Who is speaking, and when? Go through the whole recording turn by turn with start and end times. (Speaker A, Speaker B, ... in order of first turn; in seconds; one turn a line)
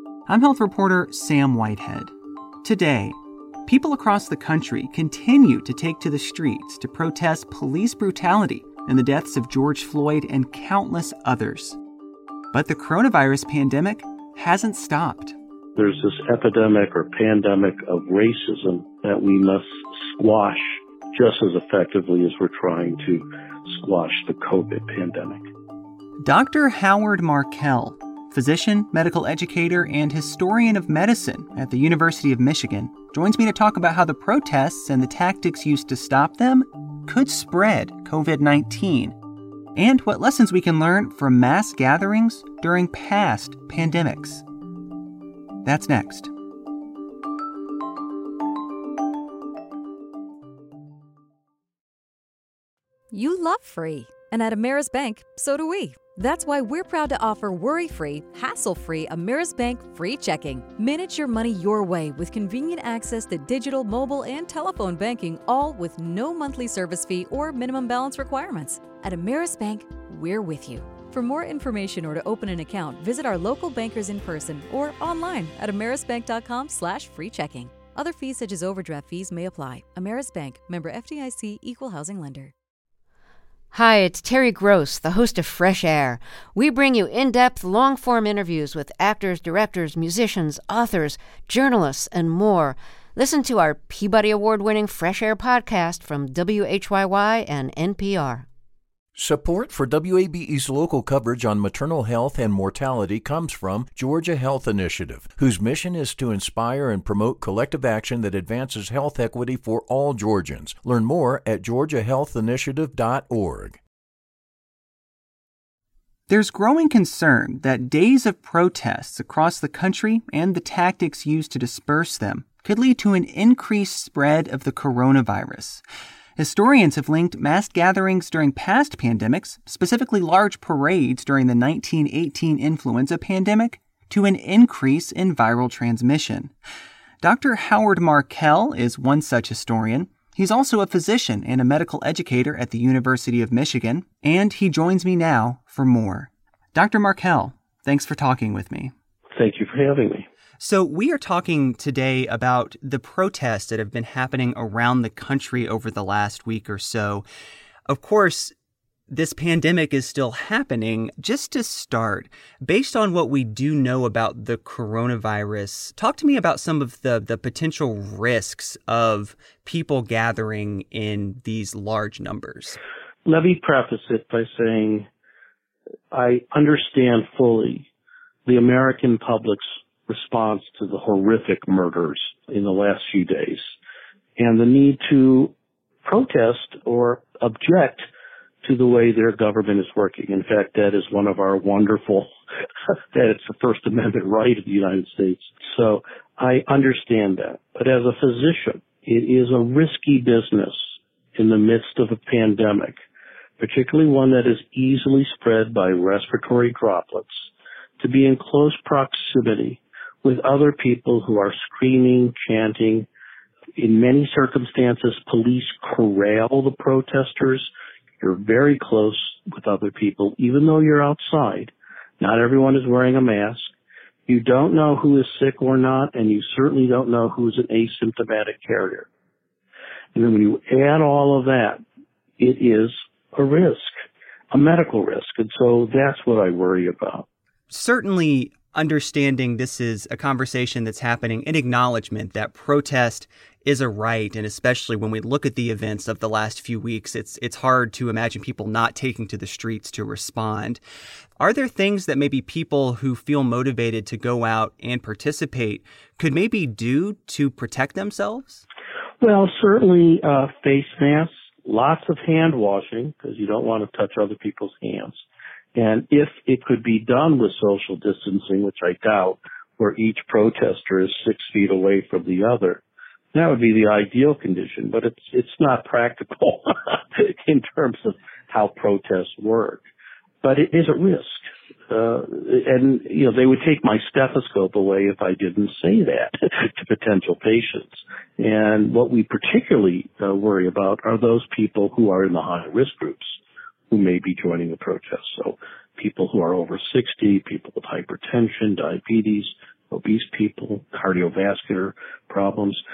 Speaker A: 0.3-2.1
Speaker A: 2.6-11.8
Speaker A: 12.5-15.3
Speaker B: 15.8-25.5
Speaker A: 26.2-39.1
Speaker A: 39.8-44.4
Speaker A: 45.6-46.3
Speaker C: 53.2-82.5
Speaker D: 83.7-98.4
Speaker E: 99.1-113.8
Speaker A: 116.3-125.8
Speaker A: 126.4-136.5
Speaker A: 137.2-148.9
Speaker B: 149.3-150.3
Speaker A: 150.6-157.2
Speaker A: 157.9-158.5
Speaker A: 159.1-172.8
Speaker B: 173.2-175.1
Speaker B: 176.1-177.9
Speaker B: 178.4-183.7
Speaker B: 184.4-185.5
Speaker B: 186.0-188.0
Speaker B: 188.6-192.3
Speaker B: 193.1-203.0
Speaker B: 203.6-207.5
Speaker B: 208.0-213.1
Speaker B: 213.8-223.7
Speaker B: 224.3-229.1
Speaker B: 230.1-231.8
Speaker B: 232.4-233.9
Speaker B: 234.5-237.2
Speaker A: 237.7-250.8
Speaker A: 251.4-258.6
Speaker B: 259.2-265.2
Speaker B: 265.7-272.8
Speaker B: 273.3-279.9
Speaker B: 280.4-293.4
Speaker B: 293.9-302.8